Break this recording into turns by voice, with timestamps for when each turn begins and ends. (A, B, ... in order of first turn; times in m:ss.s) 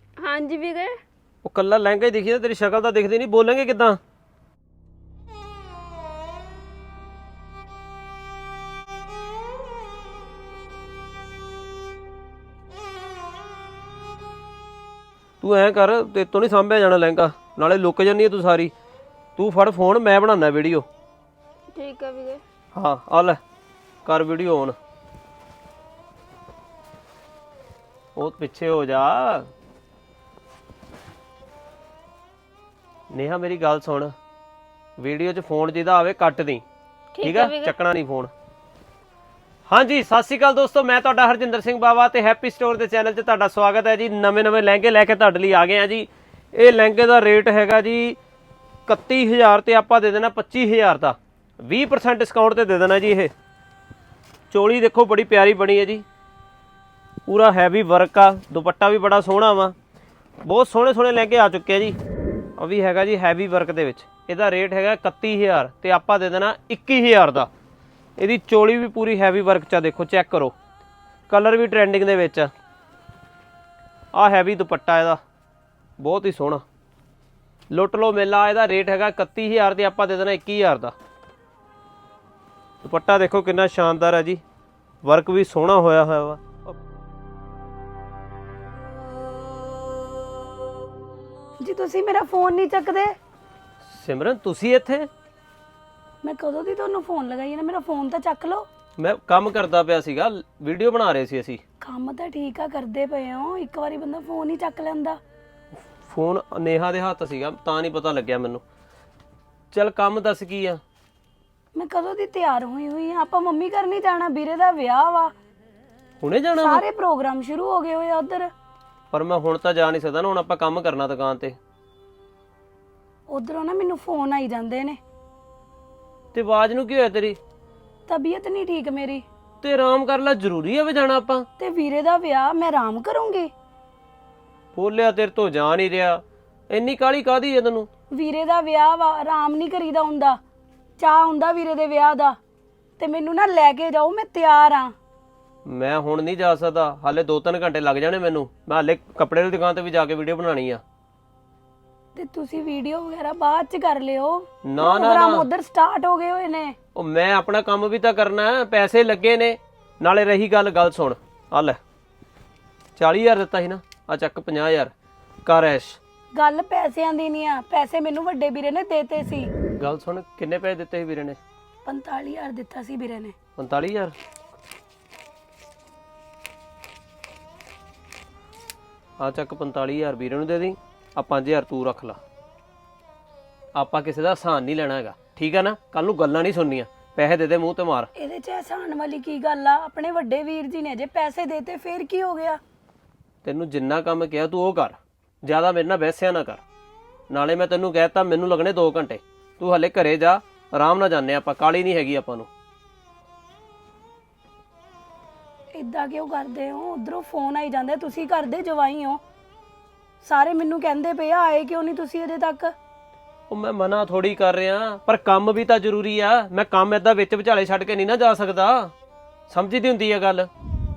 0:00.2-0:01.0 A
0:01.4-0:04.0 B
0:15.4-0:18.7 B
0:19.4-0:20.9 B
0:21.7-0:22.4 A
0:22.8-0:23.4 B
0:24.0-0:24.8 B
0:28.2-0:29.5 B
0:33.1-0:34.1 B
0:35.0-0:36.6 B
0:37.1-0:37.7 A
0:37.2-0:38.3 B
0:39.7-0:48.2 B
0:48.9-0:53.3 B
0:54.5-0:56.0 B
0:57.3-0:59.7 B
1:00.4-1:02.0 B
1:02.6-1:07.5 B
1:08.2-1:10.6 B
1:11.3-1:12.5 B
1:14.1-1:15.2 B
1:16.0-1:16.6 B
1:17.7-1:20.9 B
1:22.8-1:24.4 B
1:25.0-1:26.7 B
1:31.6-1:33.1 C
1:33.8-1:35.1 B
1:36.2-1:38.7 C
1:39.0-1:41.6 B
1:41.8-1:45.2 C
1:46.0-1:48.6 B
1:49.7-1:50.8 B
1:51.8-1:55.3 C
1:56.2-1:56.8 B
1:56.6-1:58.5 C
1:59.1-2:01.6 B
2:03.3-2:05.0 C
2:06.3-2:07.4 B
2:08.1-2:09.2 C
2:09.6-2:11.4 B
2:11.6-2:13.5 C
2:14.7-2:17.9 B
2:18.2-2:20.4 C
2:21.0-2:22.4 C
2:23.0-2:24.9 C
2:25.7-2:30.8 B
2:32.2-2:36.8 C
2:34.6-2:35.5 B
2:36.9-2:41.8 B
2:43.0-2:44.9 B
2:45.4-2:46.0 B
2:46.3-2:49.5 C
2:49.8-2:51.4 B
2:51.8-2:53.3 C
2:53.6-2:54.2 B
2:59.2-3:02.2 B
3:03.8-3:08.1 B
3:08.2-3:12.6 C
3:13.4-3:16.6 B
3:17.3-3:22.5 B
3:25.8-3:29.2 C
3:30.2-3:32.7 C
3:33.5-3:38.9 B
3:39.5-3:40.5 B